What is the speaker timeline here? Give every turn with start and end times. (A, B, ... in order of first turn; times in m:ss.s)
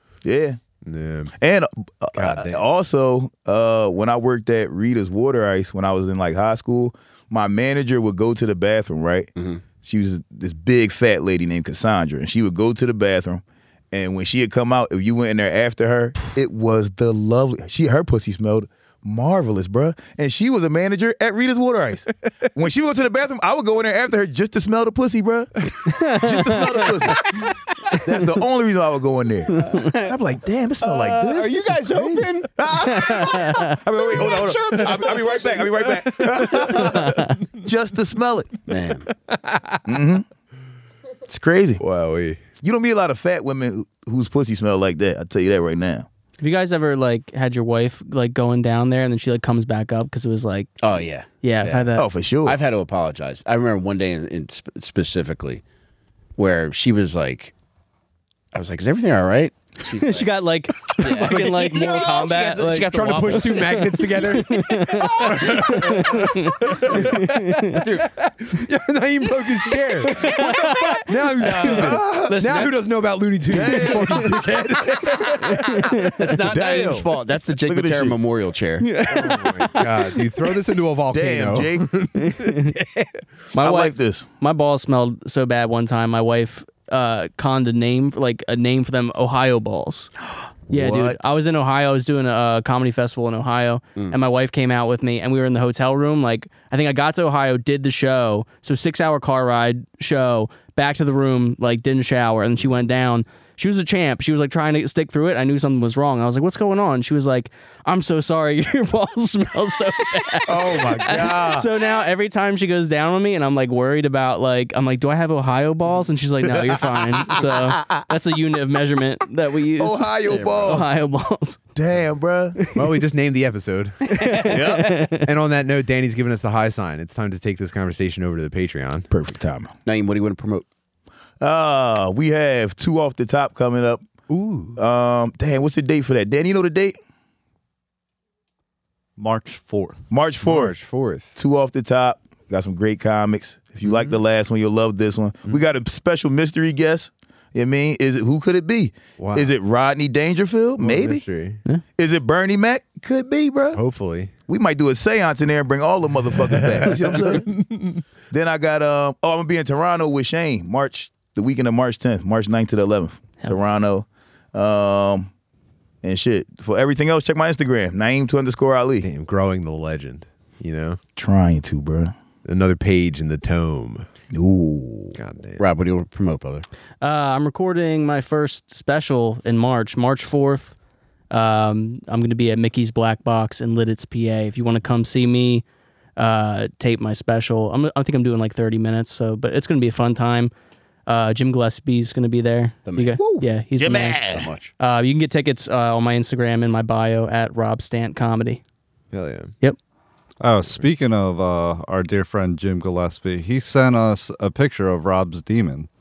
0:00.2-0:00.6 A
0:00.8-0:01.3 B
0:01.4-0:09.3 A
0:02.2-0:02.6 B
0:09.4-0:09.6 C
0:09.8-0:27.4 A
0:25.9-0:26.9 D
0:26.5-0:27.5 B
0:28.0-0:38.5 A
0:29.7-0:30.2 C
0:30.8-0:32.5 C
0:32.9-0:33.8 D
0:34.2-0:35.6 C
0:34.3-0:37.4 B
0:37.0-0:37.3 D
0:38.7-0:39.1 C
0:39.1-0:39.9 B
0:39.8-0:40.3 A
0:41.3-0:41.8 A
0:41.8-0:42.4 B
0:42.6-0:46.1 A
0:46.4-0:50.7 D
0:50.8-0:51.9 C
0:51.4-0:52.1 D
0:52.0-0:52.6 A
0:52.4-0:55.6 C
0:56.4-0:57.5 C
0:58.5-1:00.3 C
1:00.0-1:07.9 D
1:00.9-1:04.2 C
1:01.1-1:16.1 B
1:07.7-1:08.0 C
1:10.0-1:11.1 D
1:10.2-1:10.6 C
1:11.4-1:12.8 C
1:11.7-1:12.6 A
1:13.5-1:14.6 A
1:15.6-1:16.1 D
1:16.0-1:18.9 C
1:16.3-1:17.1 A
1:17.7-1:18.2 A
1:18.8-1:20.3 D
1:19.1-1:23.2 B
1:21.1-1:21.9 A
1:22.2-1:22.8 D
1:23.5-1:30.1 D
1:23.6-1:24.3 A
1:30.7-2:00.1 D
1:30.7-1:31.2 A
1:50.5-1:51.7 A
1:56.4-1:58.0 A
1:59.8-2:00.9 A
2:00.3-2:00.8 C
2:00.6-2:01.6 D
2:01.8-2:02.6 A
2:02.7-2:04.4 B
2:04.1-2:05.3 D
2:04.4-2:05.1 A
2:05.1-2:09.1 B
2:09.1-2:09.7 A
2:09.9-2:10.7 C
2:11.4-2:14.0 A
2:14.3-2:14.8 B
2:14.8-2:17.0 A
2:19.2-2:20.0 E
2:20.1-2:20.8 A
2:20.4-2:21.4 B
2:21.4-2:31.2 A
2:29.2-2:29.5 B
2:30.8-2:31.6 B
2:32.0-2:33.8 A
2:33.7-2:34.3 B
2:34.5-2:37.5 A
2:36.4-2:38.0 B
2:38.3-2:45.3 A
2:46.0-2:49.1 A
2:49.0-2:51.0 B
2:51.2-2:52.1 A
2:52.4-2:54.1 B
2:54.3-2:55.2 A
2:55.2-2:55.6 B
2:55.6-2:56.7 C
2:57.0-3:00.7 D
3:01.3-3:05.6 D
3:06.2-3:10.5 D
3:11.1-3:14.2 D
3:12.9-3:13.2 C
3:13.2-3:14.5 A
3:13.8-3:14.7 C
3:14.8-3:18.6 D
3:19.1-3:19.5 B
3:20.4-3:25.9 E